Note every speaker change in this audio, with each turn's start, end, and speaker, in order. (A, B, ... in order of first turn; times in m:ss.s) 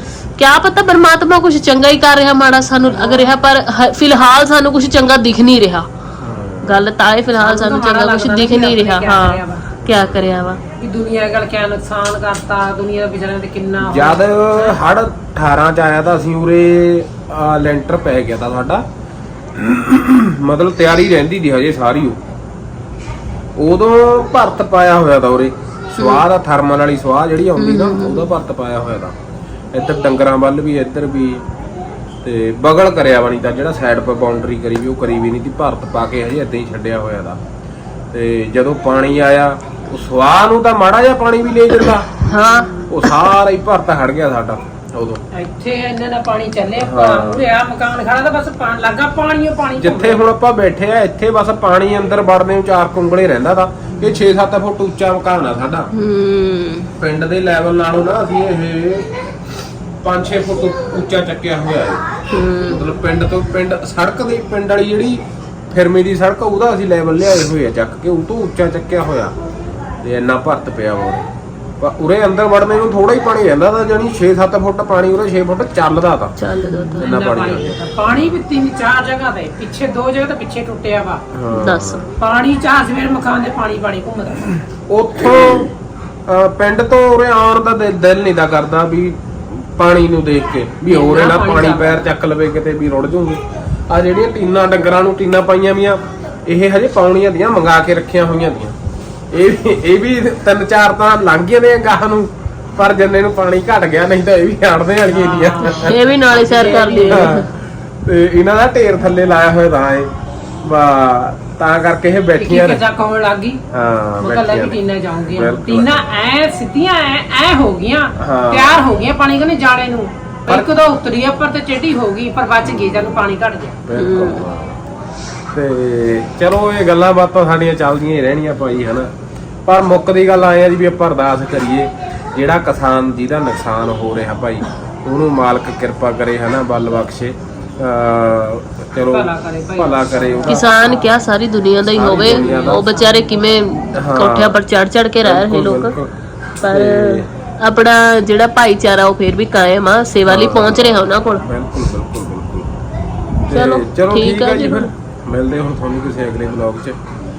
0:00.4-0:05.9 A
0:02.8-0:03.3 B
0:06.2-0:06.9 B
0:06.6-0:10.6 A
0:07.4-0:09.7 C
0:09.8-0:10.6 B
0:10.8-0:14.8 C
0:13.8-0:18.8 B
0:19.5-0:22.2 B
0:23.6-0:29.1 B
0:26.0-0:26.2 A
0:27.6-0:28.3 A
0:29.7-0:31.4 B
0:32.2-0:37.4 B
0:38.1-0:42.1 B
0:42.3-0:43.2 A
0:42.9-0:45.2 B
0:45.3-0:50.2 C
0:46.8-0:47.5 B
0:49.8-0:55.9 B
0:53.9-0:54.2 C
0:55.9-0:56.9 A
0:57.0-0:59.1 B
1:00.0-1:02.0 B
1:02.3-1:02.8 A
1:02.6-1:09.3 B
1:10.0-1:11.2 B
1:11.8-1:16.4 B
1:16.4-1:17.1 A
1:16.6-1:21.2 C
1:17.0-1:18.4 B
1:21.3-1:22.0 B
1:21.5-1:22.1 A
1:22.2-1:24.5 C
1:24.9-1:25.7 B
1:26.3-1:38.8 B
1:30.9-1:32.0 C
1:39.3-1:46.0 B
1:45.1-1:47.4 C
1:45.7-1:47.5 A
1:47.0-1:47.5 B
1:48.0-1:50.1 B
1:50.6-1:52.8 B
1:52.4-1:53.6 C
1:53.7-1:56.0 B
1:54.2-2:03.8 C
1:58.2-1:58.8 B
2:00.5-2:00.7 B
2:02.6-2:03.3 B
2:03.9-2:04.8 B
2:03.9-2:04.5 A
2:05.5-2:09.1 B
2:09.6-2:21.1 B
2:19.1-2:20.6 C
2:20.4-2:25.9 A
2:21.9-2:22.8 B
2:22.0-2:23.6 C
2:24.0-2:24.6 B
2:25.2-2:26.1 B
2:26.6-2:31.4 A
2:26.6-2:27.3 B
2:30.2-2:32.8 B
2:33.5-2:37.0 B
2:33.5-2:34.9 A